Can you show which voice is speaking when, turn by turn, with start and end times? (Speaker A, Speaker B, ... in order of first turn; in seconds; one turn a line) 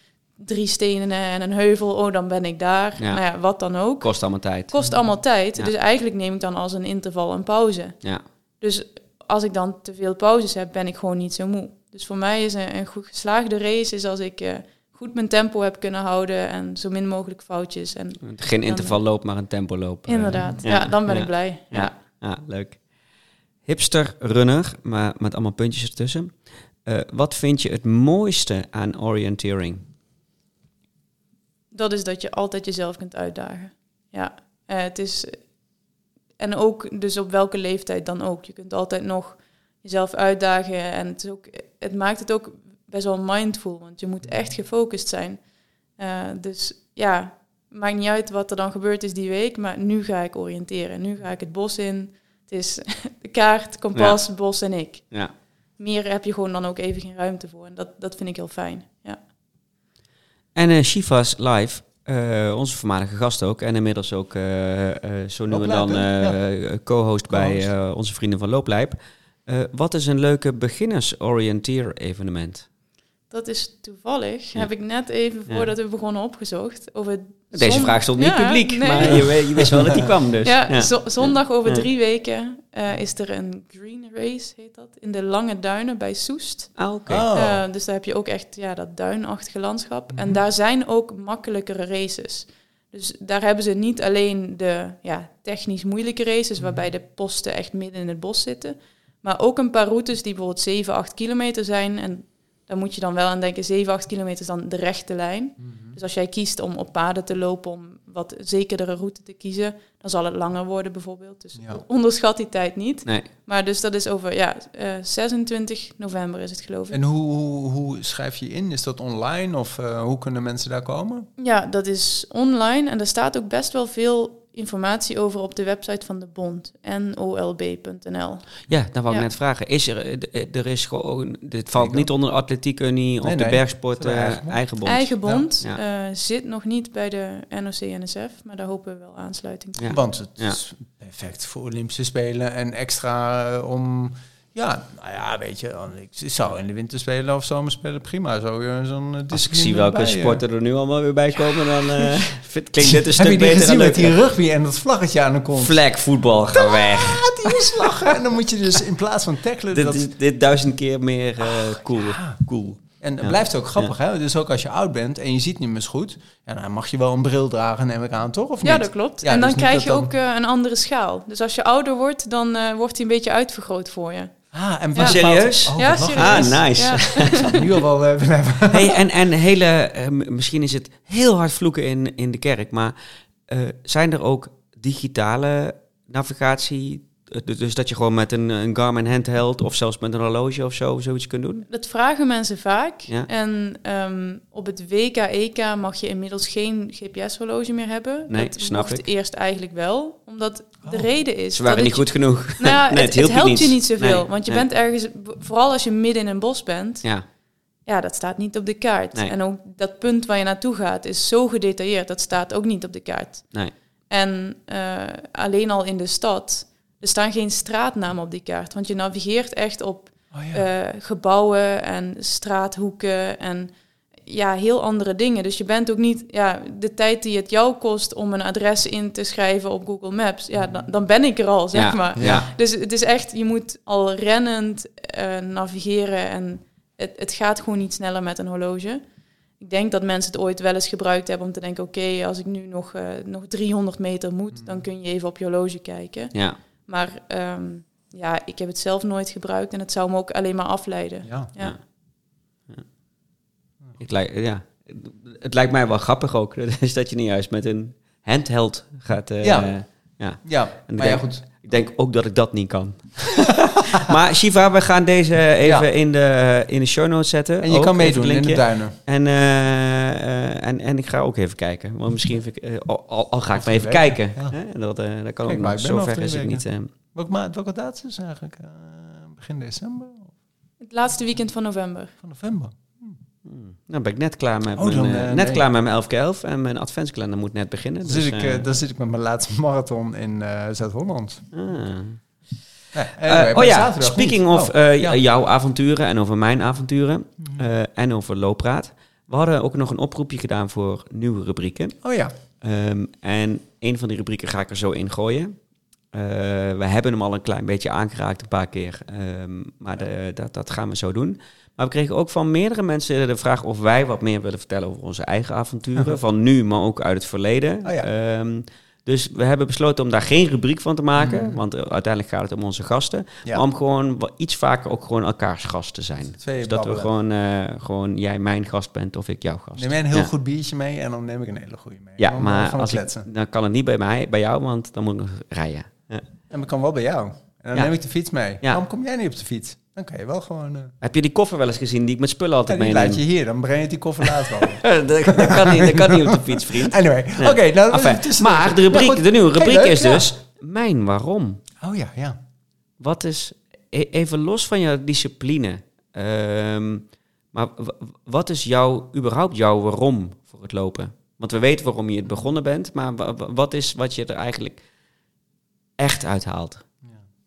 Speaker A: 0.3-19.0
Speaker B: 3.0-3.4
Speaker B: 4.0-5.0
Speaker C: 4.8-5.1
Speaker B: 18.2-22.9
Speaker A: 20.1-21.9
Speaker B: 23.6-29.8
Speaker A: 31.7-35.5
Speaker A: 36.4-55.2
Speaker B: 53.9-54.2
Speaker A: 55.8-59.2
Speaker B: 60.5-72.7
Speaker C: 65.5-66.4
Speaker C: 67.3-67.7
Speaker A: 73.3-79.6
Speaker B: 77.5-81.8
Speaker C: 79.0-80.0
Speaker A: 80.4-117.0
Speaker B: 86.8-87.3
Speaker C: 87.1-87.6
Speaker C: 90.1-90.4
Speaker C: 96.6-96.9
Speaker C: 105.6-106.0
Speaker C: 116.9-121.3
Speaker A: 121.4-128.5
Speaker B: 128.7-135.8
Speaker C: 131.7-132.1
Speaker C: 133.2-134.6
Speaker A: 134.8-139.9
Speaker B: 139.8-140.6
Speaker C: 139.9-150.4
Speaker B: 149.3-154.1
Speaker C: 151.4-152.1
Speaker C: 152.8-155.8
Speaker B: 155.5-158.1
Speaker C: 156.5-160.1
Speaker B: 159.7-163.9
Speaker C: 161.4-162.4
Speaker C: 163.0-170.1
Speaker A: 168.6-174.3
Speaker C: 174.5-178.9
Speaker A: 174.9-177.6
Speaker B: 175.0-177.6
Speaker B: 178.7-182.9
Speaker B: 183.5-191.7
Speaker A: 191.7-207.1
Speaker B: 198.3-199.1
Speaker B: 201.5-204.7
Speaker A: 207.8-239.0
Speaker C: 220.3-220.6
Speaker C: 230.5-230.8
Speaker B: 231.7-232.5
Speaker C: 232.2-232.5
Speaker A: 239.6-251.8
Speaker C: 244.5-244.8
Speaker C: 251.2-251.5
Speaker B: 254.0-276.9
Speaker C: 259.4-259.7
Speaker C: 260.4-261.4
Speaker C: 265.6-265.9
Speaker C: 267.6-269.0
Speaker C: 273.5-274.6
Speaker C: 275.4-280.3
Speaker A: 280.8-282.1
Speaker C: 282.2-283.2
Speaker B: 283.4-288.7
Speaker C: 284.8-285.6
Speaker C: 288.0-291.5
Speaker B: 291.5-292.4
Speaker C: 292.9-295.2
Speaker B: 293.2-302.0
Speaker C: 297.4-297.6
Speaker C: 302.0-302.3
Speaker B: 302.6-305.6
Speaker B: 306.1-330.3
Speaker C: 317.8-318.1
Speaker C: 321.2-321.6
Speaker C: 326.4-327.1
Speaker C: 329.8-333.3
Speaker B: 332.2-336.3
Speaker C: 336.5-340.9
Speaker B: 341.0-343.2
Speaker C: 342.7-350.2
Speaker B: 344.5-351.6
Speaker C: 351.8-352.4
Speaker B: 353.0-364.9
Speaker B: 366.0-366.9